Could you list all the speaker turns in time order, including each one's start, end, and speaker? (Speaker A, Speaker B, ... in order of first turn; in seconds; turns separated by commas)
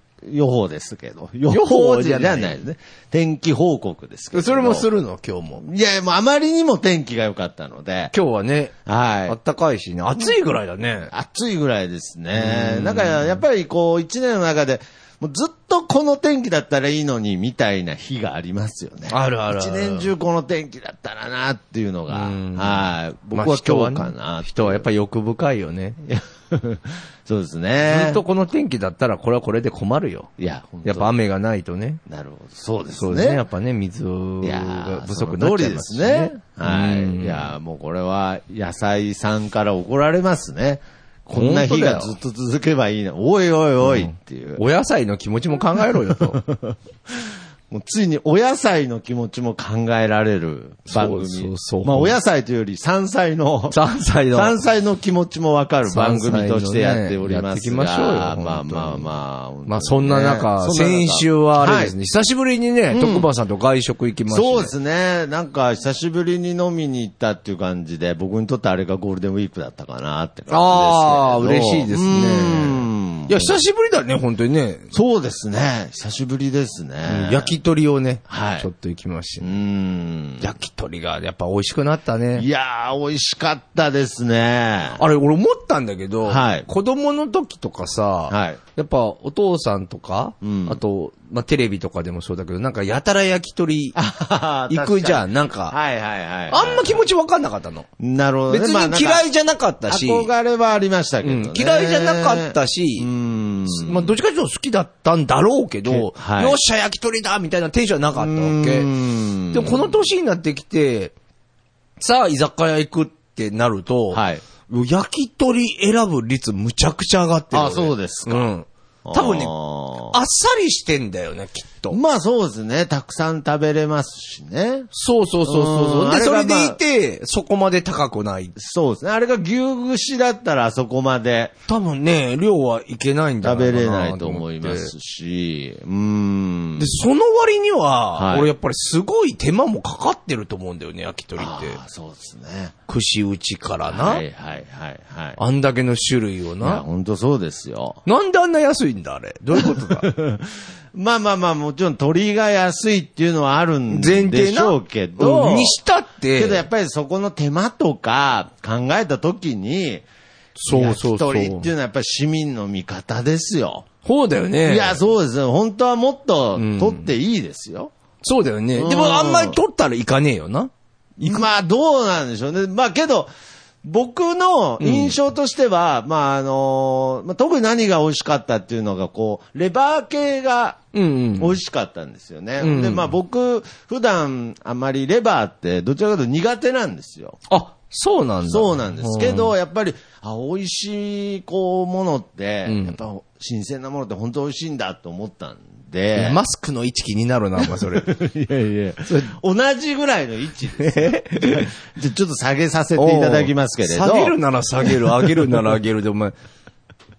Speaker A: 0.2-4.9, Speaker B: 1.5-2.5, Speaker B: 4.3-5.6, Speaker A: 5.6-8.1, Speaker B: 8.1-8.7, Speaker A: 8.9-9.4, Speaker B: 9.3-11.1, Speaker A: 11.1-24.9, Speaker B: 12.3-13.4, Speaker B: 19.1-20.1, Speaker B: 22.1-26.0, Speaker A: 26.1-28.2, Speaker B: 27.8-30.3, Speaker A: 30.4-31.1, Speaker B: 30.8-32.0, Speaker A: 32.1-33.4, Speaker B: 33.0-37.5, Speaker A: 34.4-44.6, Speaker B: 41.4-42.1, Speaker B: 43.8-46.4, Speaker A: 46.4-53.8, Speaker B: 50.9-52.2, Speaker B: 53.7-54.6, Speaker A: 54.3-61.9, Speaker B: 55.9-59.1, Speaker B: 59.7-64.7, Speaker A: 62.9-63.3, Speaker A: 64.3-73.6, Speaker B: 70.5-74.9, Speaker A: 74.9-77.5, Speaker B: 77.1-79.6, Speaker A: 78.3-78.7, Speaker A: 79.4-80.5, Speaker B: 80.4-82.5, Speaker A: 82.4-85.0, Speaker B: 85.0-94.0, Speaker A: 86.2-86.7, Speaker A: 88.3-88.6, Speaker A: 90.4-90.8, Speaker A: 94.0-97.0, Speaker B: 94.7-95.8, Speaker B: 96.5-97.9, Speaker A: 98.0-99.3, Speaker B: 98.5-100.3, Speaker A: 99.9-104.1, Speaker B: 101.2-103.1, Speaker B: 103.7-108.9, Speaker A: 105.9-106.6, Speaker A: 108.2-110.0, Speaker B: 109.5-111.1, Speaker B: 112.0-119.5, Speaker A: 114.1-114.4, Speaker A: 117.5-118.5, Speaker A: 119.0-120.2, Speaker B: 120.1-122.0, Speaker A: 121.9-124.9, Speaker B: 124.9-128.6, Speaker A: 125.5-126.8, Speaker A: 128.6-131.5, Speaker B: 131.7-134.9, Speaker A: 133.4-136.9, Speaker B: 136.8-141.8, Speaker A: 138.2-138.5, Speaker A: 141.4-142.8, Speaker B: 142.9-144.2, Speaker A: 143.9-145.4, Speaker B: 145.4-146.8, Speaker A: 146.6-148.0, Speaker B: 148.1-150.1, Speaker A: 149.6-155.8, Speaker B: 153.9-156.6, Speaker A: 156.3-160.1, Speaker B: 160.6-161.7, Speaker A: 160.7-163.9, Speaker B: 164.0-165.0, Speaker A: 164.7-167.9, Speaker B: 166.6-167.1, Speaker B: 168.2-171.5, Speaker A: 168.8-169.6, Speaker A: 171.2-173.3, Speaker A: 173.8-180.8, Speaker B: 174.8-175.2, Speaker B: 180.9-181.6, Speaker A: 181.4-187.4, Speaker B: 182.6-183.1, Speaker B: 187.5-189.5, Speaker A: 188.4-196.4, Speaker B: 192.7-193.0, Speaker B: 196.2-198.1, Speaker A: 197.7-205.6, Speaker B: 199.1-199.3, Speaker B: 200.8-201.7, Speaker B: 203.0-206.3